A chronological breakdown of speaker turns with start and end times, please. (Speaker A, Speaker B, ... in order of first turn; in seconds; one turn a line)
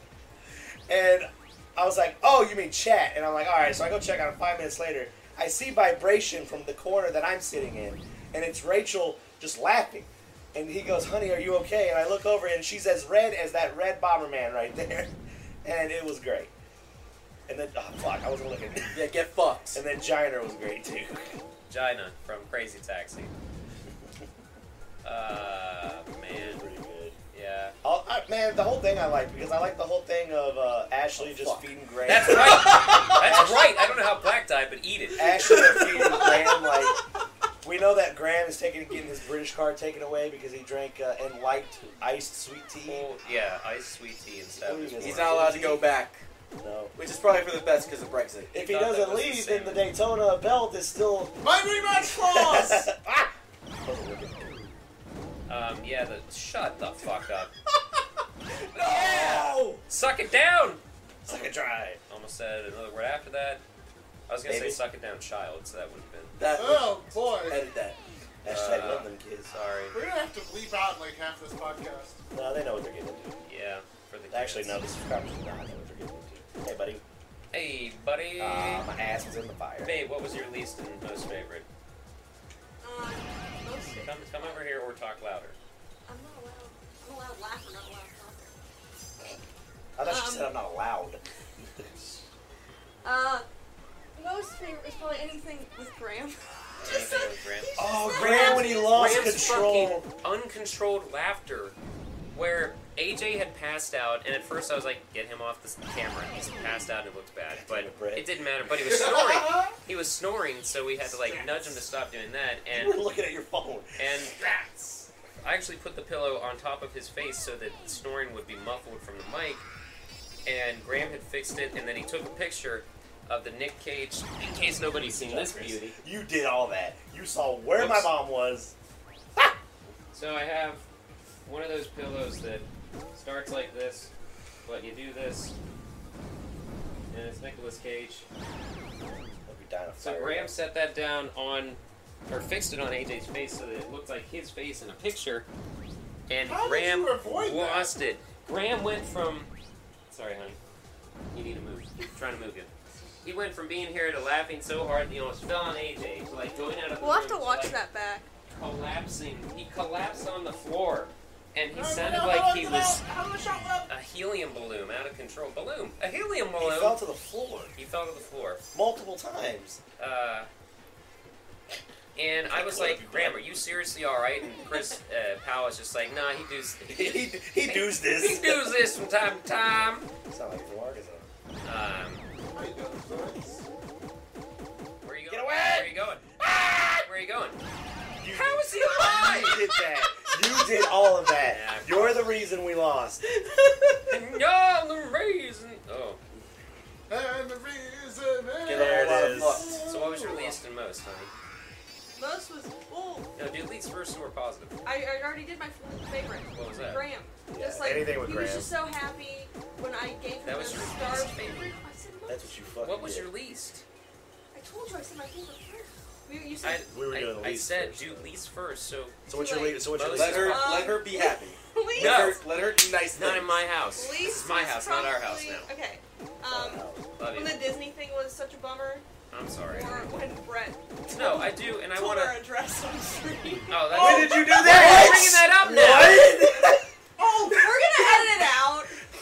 Speaker A: 0.9-15.1
Speaker A: 15.6-16.5
Speaker A: 17.5-19.1
Speaker B: 18.9-19.8
Speaker A: 19.7-21.4
Speaker C: 21.7-23.3
Speaker C: 25.0-26.7
Speaker A: 26.3-27.2
Speaker C: 27.3-27.8
Speaker A: 27.8-33.7
Speaker B: 31.2-31.7
Speaker C: 32.0-35.5
Speaker A: 35.2-37.0
Speaker D: 35.7-37.0
Speaker A: 37.6-43.1
Speaker C: 42.9-45.5
Speaker A: 44.5-45.9
Speaker B: 45.0-46.3
Speaker A: 46.6-46.9
Speaker B: 47.0-48.5
Speaker A: 48.5-51.4
Speaker C: 48.5-49.9
Speaker E: 51.4-52.9
Speaker A: 52.0-54.5
Speaker C: 55.5-57.5
Speaker C: 58.7-63.6
Speaker A: 58.8-59.9
Speaker A: 61.3-62.0
Speaker C: 64.3-66.4
Speaker A: 64.5-64.8
Speaker B: 66.4-68.0
Speaker E: 66.5-67.6
Speaker A: 68.4-69.5
Speaker C: 68.5-70.0
Speaker E: 69.9-72.2
Speaker A: 72.3-73.4
Speaker C: 73.5-74.8
Speaker A: 74.3-77.0
Speaker C: 77.5-78.9
Speaker A: 78.4-80.0
Speaker C: 79.8-81.7
Speaker D: 82.8-84.6
Speaker C: 84.0-85.6
Speaker D: 86.1-88.6
Speaker A: 90.0-91.2
Speaker D: 90.0-90.5
Speaker D: 93.0-93.5
Speaker D: 94.2-99.2
Speaker C: 96.8-101.8
Speaker A: 97.8-100.1
Speaker C: 102.3-113.0
Speaker A: 107.5-108.3
Speaker E: 108.8-109.8
Speaker E: 111.0-111.8
Speaker A: 112.7-114.1
Speaker C: 114.0-114.4
Speaker E: 114.4-115.0
Speaker C: 115.4-119.7
Speaker C: 120.5-126.0
Speaker A: 125.1-128.8
Speaker C: 127.8-128.1
Speaker C: 130.1-130.8
Speaker C: 131.5-134.1
Speaker C: 134.7-135.6
Speaker C: 137.1-138.3
Speaker A: 139.5-140.5
Speaker C: 140.0-145.5
Speaker C: 146.3-149.5
Speaker E: 146.5-147.9
Speaker C: 150.1-150.6
Speaker C: 151.3-152.7
Speaker C: 153.2-157.8
Speaker D: 157.0-158.3
Speaker C: 158.5-163.0
Speaker E: 161.7-163.9
Speaker C: 163.9-167.0
Speaker A: 166.6-167.7
Speaker C: 167.8-168.6
Speaker A: 168.7-169.8
Speaker C: 170.0-170.5
Speaker C: 172.2-180.1
Speaker A: 172.5-173.6
Speaker A: 176.9-178.7
Speaker A: 180.3-181.3
Speaker C: 181.6-182.3
Speaker E: 182.5-183.7
Speaker C: 185.0-186.2
Speaker A: 185.3-187.1
Speaker C: 187.0-187.6
Speaker A: 188.2-193.2
Speaker C: 188.3-189.7
Speaker C: 191.4-192.3
Speaker C: 194.1-196.2
Speaker E: 197.1-200.6
Speaker B: 198.6-199.8
Speaker A: 198.7-199.6
Speaker C: 199.9-201.3
Speaker D: 202.2-203.3
Speaker C: 203.3-204.8
Speaker D: 204.8-212.6
Speaker C: 206.5-207.1
Speaker A: 207.5-208.7
Speaker C: 210.4-211.7
Speaker A: 212.3-213.3
Speaker C: 212.8-213.8
Speaker D: 214.5-216.9
Speaker C: 216.6-219.2
Speaker A: 216.9-218.3
Speaker A: 219.3-220.7
Speaker D: 219.3-219.9
Speaker C: 219.8-220.8
Speaker B: 220.1-223.6
Speaker D: 220.4-222.4
Speaker C: 222.0-222.4
Speaker C: 223.1-225.7
Speaker D: 223.9-229.1
Speaker A: 226.5-227.1
Speaker C: 227.2-227.6
Speaker C: 229.3-230.1
Speaker D: 229.7-235.2
Speaker C: 231.1-232.4
Speaker C: 233.7-236.3
Speaker A: 233.9-236.9
Speaker D: 236.0-239.0
Speaker E: 237.2-237.7